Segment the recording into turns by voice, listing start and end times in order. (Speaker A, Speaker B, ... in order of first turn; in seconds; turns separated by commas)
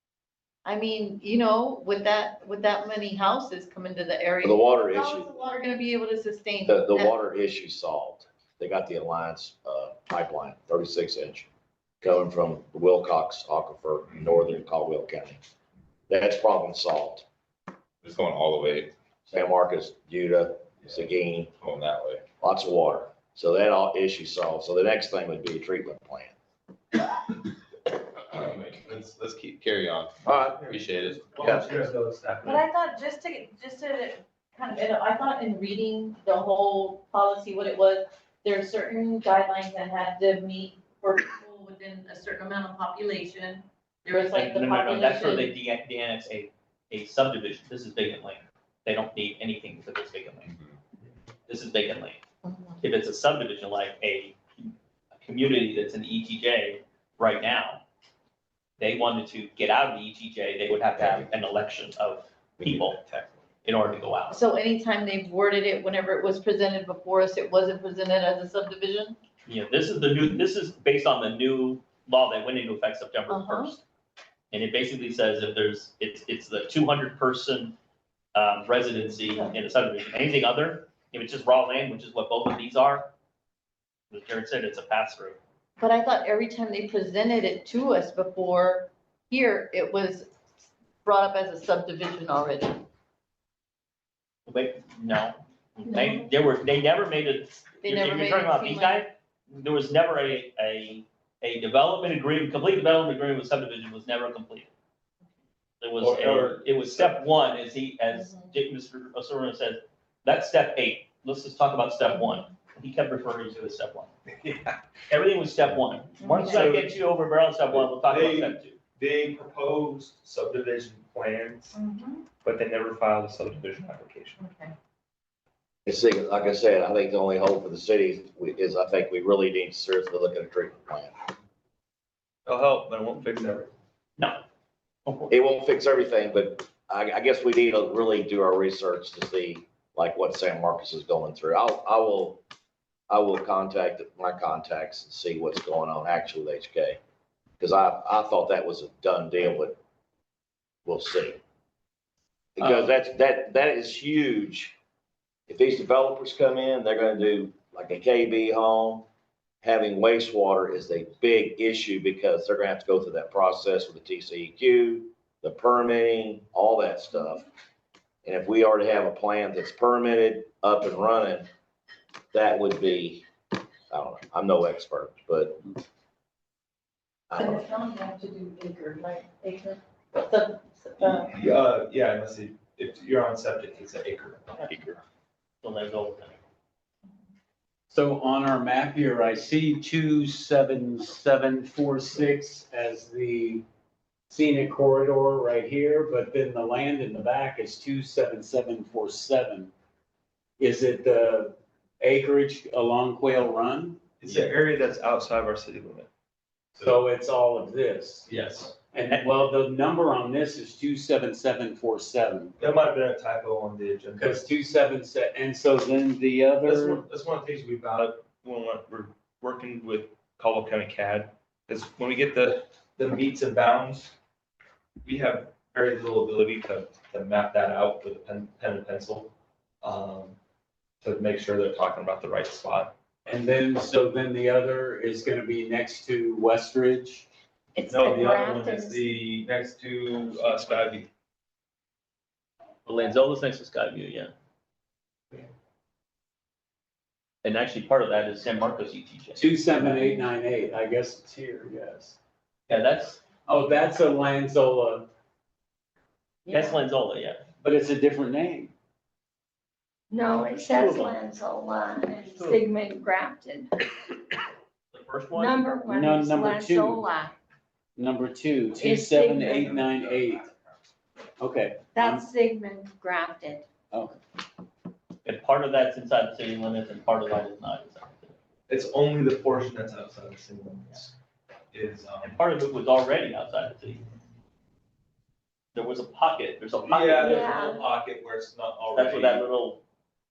Speaker A: 0.7-7.1, Speaker B: 4.4-5.3, Speaker B: 6.7-11.5, Speaker B: 12.0-15.4, Speaker B: 16.1-17.2, Speaker C: 18.1-18.9, Speaker B: 19.3-21.5, Speaker C: 21.6-22.2, Speaker B: 22.4-26.3, Speaker C: 28.3-31.1, Speaker B: 30.2-30.6, Speaker D: 30.4-32.7, Speaker B: 31.4-31.9, Speaker A: 32.5-45.5, Speaker E: 44.3-50.5, Speaker E: 51.5-52.2, Speaker A: 52.4-52.8, Speaker E: 52.8-54.7, Speaker E: 55.2-57.8, Speaker E: 58.8-63.0, Speaker C: 62.6-63.3, Speaker E: 63.6-64.4, Speaker A: 64.3-69.2, Speaker E: 69.5-73.8, Speaker A: 73.3-73.7, Speaker E: 74.5-77.8, Speaker E: 78.3-83.1, Speaker E: 84.1-85.4, Speaker A: 85.8-90.3, Speaker A: 91.0-92.8, Speaker E: 94.5-104.7, Speaker A: 95.8-96.3, Speaker A: 97.8-99.0, Speaker E: 105.8-114.1, Speaker D: 106.0-107.2, Speaker E: 115.1-118.8, Speaker A: 116.2-116.6, Speaker D: 116.3-117.0, Speaker D: 117.7-121.8, Speaker A: 121.7-122.2, Speaker D: 122.4-124.4, Speaker A: 124.4-124.8, Speaker B: 125.9-131.2, Speaker D: 132.5-133.7, Speaker E: 135.1-135.3, Speaker B: 135.3-142.4, Speaker B: 143.1-147.0, Speaker B: 147.6-149.8, Speaker B: 150.9-151.4, Speaker B: 152.6-154.7, Speaker B: 155.5-159.1, Speaker B: 159.6-167.4, Speaker B: 168.2-171.5, Speaker B: 172.3-173.3, Speaker B: 173.9-175.6, Speaker B: 177.3-177.6, Speaker A: 177.4-181.3, Speaker D: 181.0-184.7, Speaker E: 184.6-185.0, Speaker E: 185.6-186.4, Speaker F: 187.9-193.6, Speaker F: 194.3-199.7, Speaker F: 200.6-204.0, Speaker D: 204.2-206.1, Speaker F: 206.8-208.3, Speaker D: 208.3-208.8, Speaker F: 208.9-212.6, Speaker D: 212.6-214.4, Speaker F: 214.2-217.0, Speaker D: 216.6-224.1, Speaker D: 225.1-230.4, Speaker D: 231.0-232.9, Speaker F: 233.3-237.3, Speaker G: 237.8-239.1, Speaker D: 237.9-241.1, Speaker E: 242.9-244.3, Speaker E: 247.4-250.1, Speaker F: 249.4-252.2, Speaker E: 252.7-253.2, Speaker F: 253.5-255.1, Speaker G: 256.5-256.8, Speaker E: 256.5-257.4, Speaker F: 257.6-258.7, Speaker G: 260.1-263.7, Speaker E: 260.7-261.1, Speaker E: 262.1-262.6, Speaker E: 264.9-265.6, Speaker G: 265.3-267.3, Speaker F: 265.9-267.1, Speaker F: 268.0-270.5, Speaker G: 268.8-270.0, Speaker F: 271.4-272.3, Speaker G: 271.9-273.7, Speaker F: 273.9-274.2, Speaker E: 275.2-278.3, Speaker D: 278.7-281.1, Speaker D: 281.7-282.4, Speaker E: 282.2-284.0, Speaker E: 285.8-287.5, Speaker D: 286.9-289.4, Speaker G: 287.2-287.8, Speaker E: 288.9-289.8